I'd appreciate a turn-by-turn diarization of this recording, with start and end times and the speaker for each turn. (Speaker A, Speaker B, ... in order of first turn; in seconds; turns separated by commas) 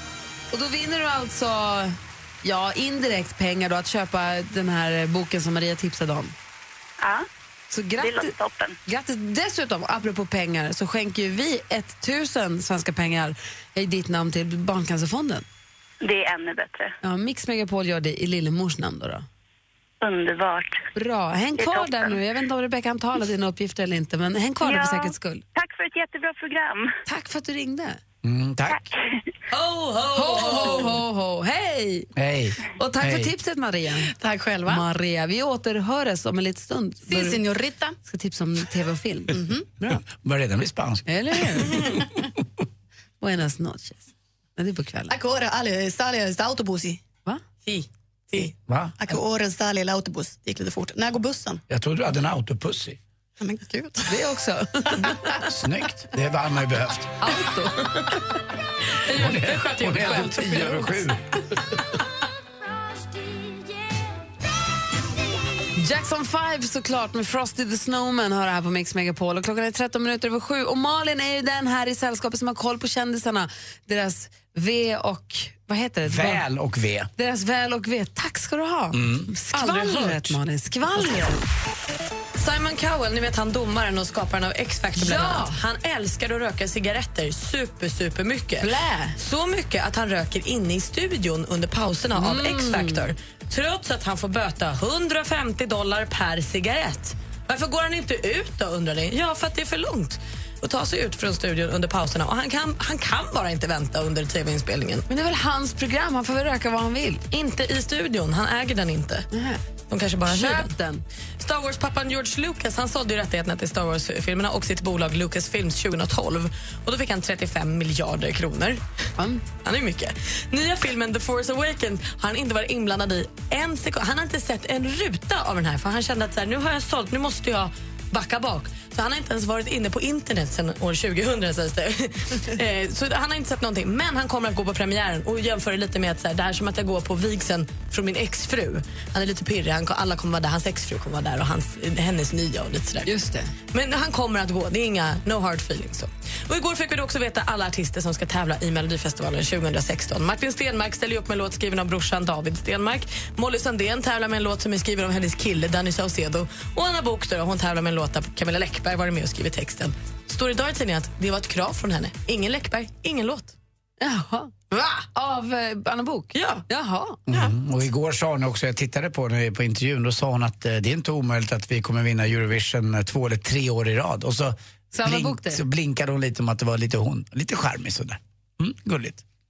Speaker A: 0.5-6.3, Speaker B: 7.0-7.3, Speaker A: 7.7-8.3, Speaker B: 8.0-8.8, Speaker A: 8.9-15.4, Speaker B: 16.0-16.9, Speaker A: 17.0-19.3, Speaker B: 20.0-20.9, Speaker A: 20.9-25.4, Speaker B: 21.6-22.2, Speaker B: 24.6-27.0, Speaker A: 27.0-28.0, Speaker C: 28.2-28.9, Speaker D: 29.5-31.0, Speaker A: 30.1-32.1, Speaker C: 32.2-33.3, Speaker A: 32.8-34.1, Speaker E: 34.2-34.8, Speaker A: 34.7-37.4, Speaker E: 37.1-38.0, Speaker A: 38.0-40.0, Speaker E: 39.3-39.6, Speaker C: 40.1-41.8, Speaker A: 41.1-42.0, Speaker A: 43.2-45.1, Speaker E: 45.1-47.0, Speaker D: 47.6-48.5, Speaker C: 48.7-49.0, Speaker E: 49.0-51.6, Speaker C: 51.7-53.0, Speaker E: 53.4-54.1, Speaker A: 54.1-55.4, Speaker C: 55.4-57.2, Speaker A: 57.2-58.1, Speaker D: 59.0-61.2, Speaker C: 59.1-61.7, Speaker A: 65.8-76.4, Speaker C: 76.0-77.1, Speaker A: 77.2-81.4, Speaker C: 78.9-79.3, Speaker D: 79.5-80.4, Speaker D: 82.4-105.0, Speaker A: 85.0-85.6, Speaker A: 88.6-89.2, Speaker A: 92.2-93.1, Speaker A: 105.1-107.2, Speaker D: 107.3-109.3, Speaker A: 109.3-109.6, Speaker D: 109.9-110.7, Speaker A: 110.3-111.0, Speaker D: 111.4-118.8, Speaker A: 119.2-119.5, Speaker D: 119.6-143.1, Speaker A: 143.0-143.5, Speaker D: 143.7-163.6, Speaker A: 164.0-167.2, Speaker D: 164.7-165.0, Speaker D: 166.3-166.7, Speaker C: 167.3-179.2, Speaker A: 174.9-175.6